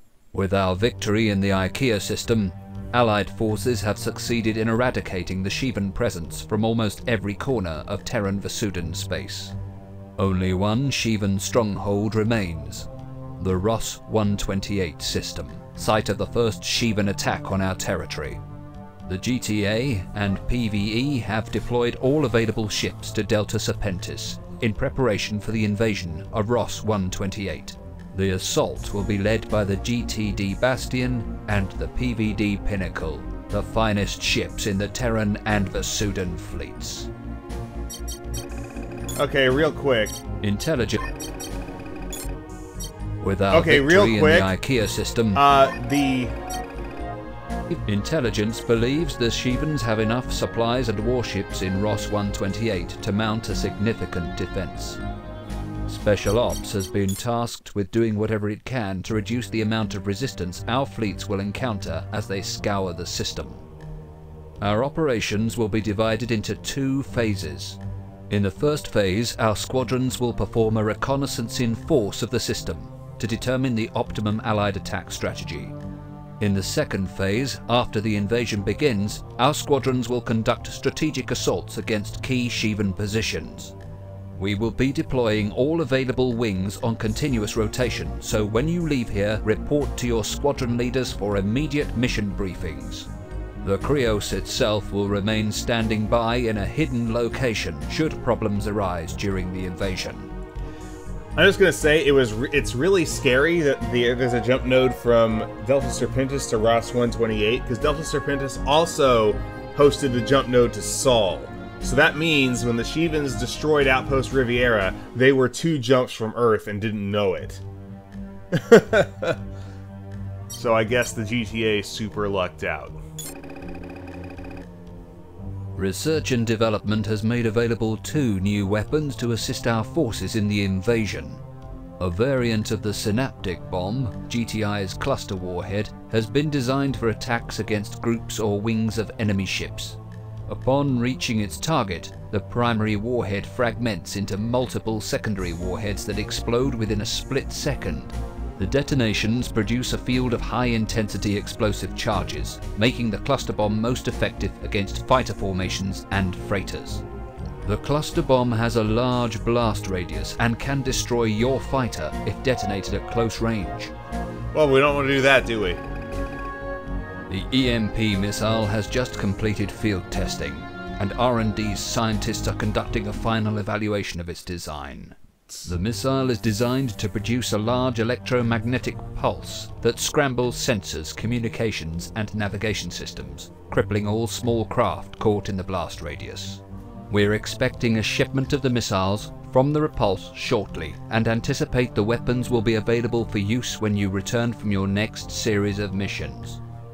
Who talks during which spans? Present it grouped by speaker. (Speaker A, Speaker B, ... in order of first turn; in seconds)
Speaker A: 0.3-9.6, 10.2-12.9, 13.4-18.4, 19.1-37.1, 40.4-41.0, 43.2-45.4, 47.7-55.0, 55.9-63.7, 64.6-75.8, 76.4-83.8, 84.4-93.1, 93.6-100.3, 125.8-131.4, 132.0-157.0, 157.7-163.9, 167.3-196.6
Speaker B: 39.2-40.2, 43.5-44.5, 45.3-46.3, 101.4-117.6, 118.5-119.4, 120.5-123.0, 164.5-165.8